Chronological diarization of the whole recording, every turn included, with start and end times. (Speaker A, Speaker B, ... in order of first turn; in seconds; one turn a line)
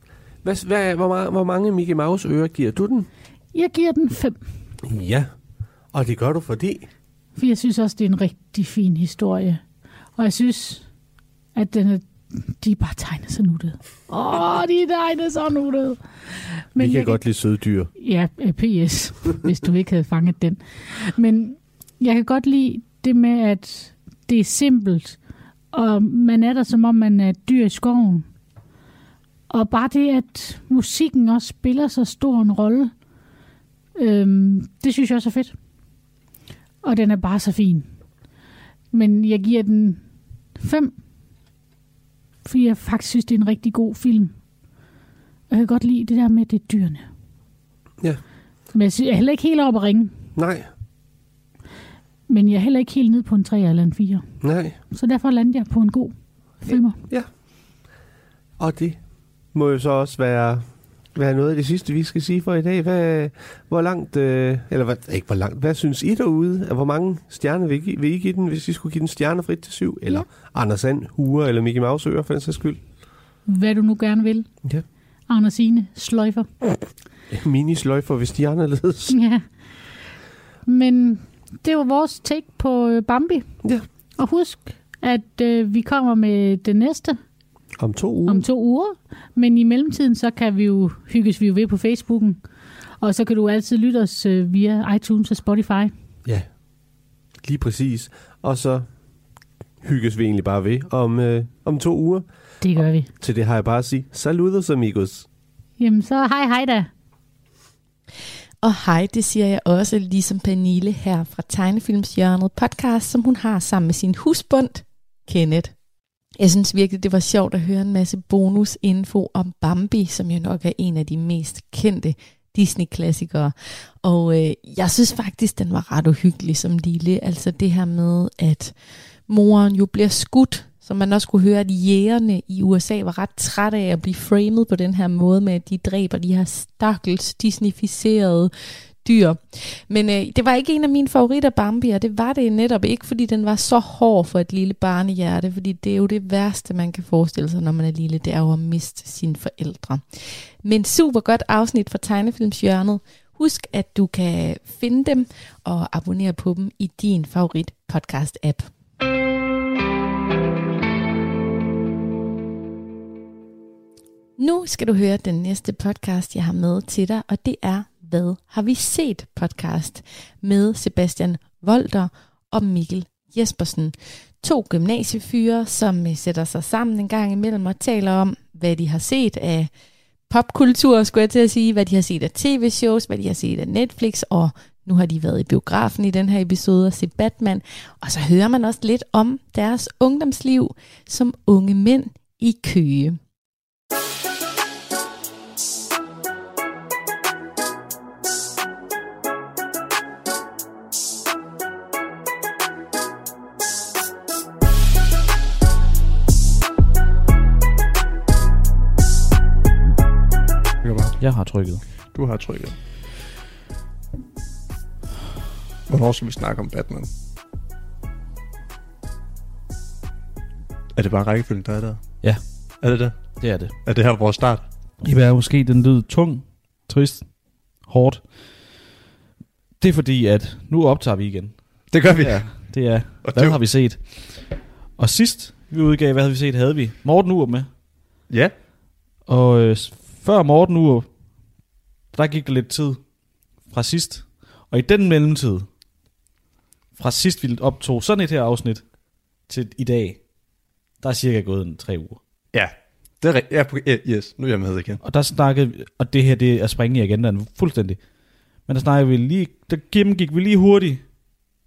Speaker A: 0.4-3.1
Speaker B: 3.5-4.5
Speaker A: 4.9-5.3
Speaker A: 5.9-6.9
Speaker B: 7.4-9.6
Speaker B: 10.2-10.9
Speaker B: 11.5-17.2
Speaker A: 16.8-17.9
Speaker B: 17.9-25.2
Speaker B: 25.7-28.3
Speaker B: 29.5-32.9
Speaker B: 34.0-35.6
Speaker B: 36.8-37.9
Speaker B: 38.9-41.0
Speaker B: 42.5-44.4
Speaker B: 45.5-47.0
Speaker B: 48.7-50.2
Speaker A: 50.4-50.7
Speaker B: 52.3-54.2
Speaker A: 54.4-54.8
Speaker B: 54.8-57.0
Speaker A: 56.7-57.3
Speaker A: 58.6-72.8
Speaker B: 73.5-74.5
Speaker B: 75.3-76.5
Speaker A: 77.3-79.2
Speaker B: 79.1-79.5
Speaker B: 80.7-83.6
Speaker B: 84.2-87.2
Speaker A: 87.8-88.5
Speaker B: 88.3-92.4
Speaker B: 93.0-95.9
Speaker A: 96.2-96.5
Speaker A: 97.4-98.9
Speaker A: 99.8-105.3
Speaker B: 102.6-103.1
Speaker B: 105.8-106.9
Speaker C: 108.6-115.7
Speaker C: 116.3-128.8
Speaker C: 129.3-158.7
Speaker C: 164.4-179.7
Speaker C: 180.3-193.2
Speaker D: 210.8-211.2
Speaker E: 211.2-211.8
Speaker D: 212.1-212.8
Speaker D: 215.9-217.1
Speaker D: 220.9-224.7
Speaker E: 222.2-223.8
Speaker E: 225.0-228.8
Speaker E: 229.8-237.7
Speaker D: 231.9-233.6
Speaker E: 239.3-241.1
Speaker E: 242.1-243.0
Speaker E: 243.7-245.7
Speaker E: 247.0-248.9
Speaker E: 249.5-250.2
Speaker E: 251.0-252.2
Speaker D: 252.5-255.0
Speaker E: 255.0-258.0
Speaker E: 258.7-261.0